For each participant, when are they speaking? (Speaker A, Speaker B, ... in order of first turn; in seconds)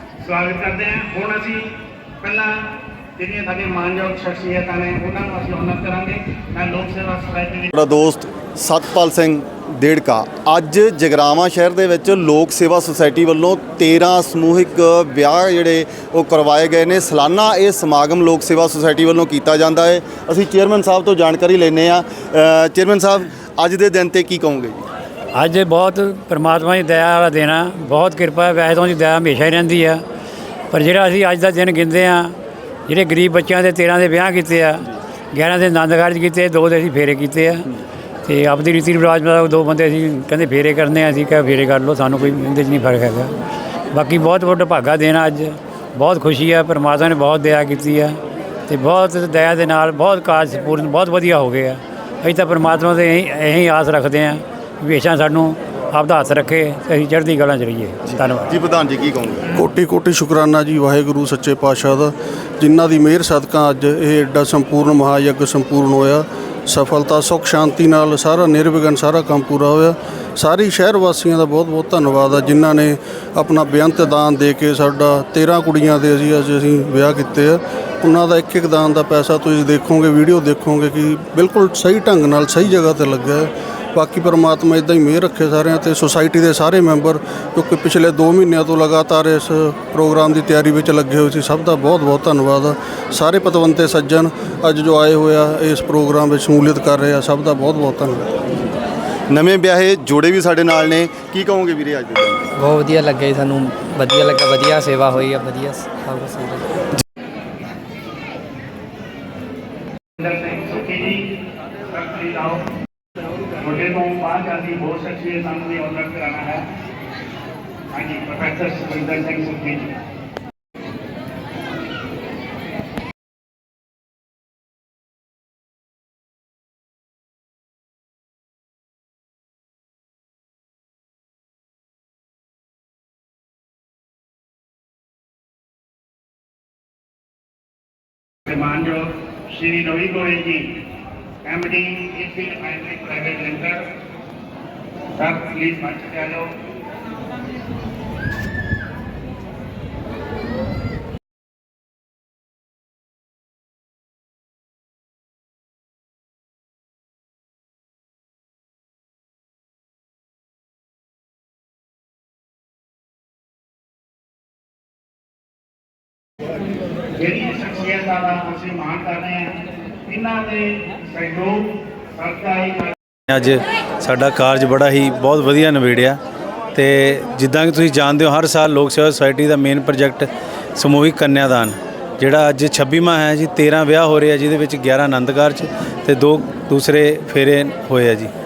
Speaker A: 0.2-1.7, 2.2-7.7, 110.2-111.4, 111.9-112.6, 113.6-116.7, 117.9-119.9, 138.5-140.7, 141.4-143.9, 145.2-146.5, 167.2-172.9
Speaker B: 7.7-24.8, 58.1-59.5, 99.3-102.5
Speaker C: 25.3-30.0, 30.7-32.4, 32.9-37.7, 38.2-43.3, 43.9-58.5
Speaker D: 59.5-98.3
Speaker E: 102.6-106.7
Speaker F: 173.3-176.2, 176.8-188.3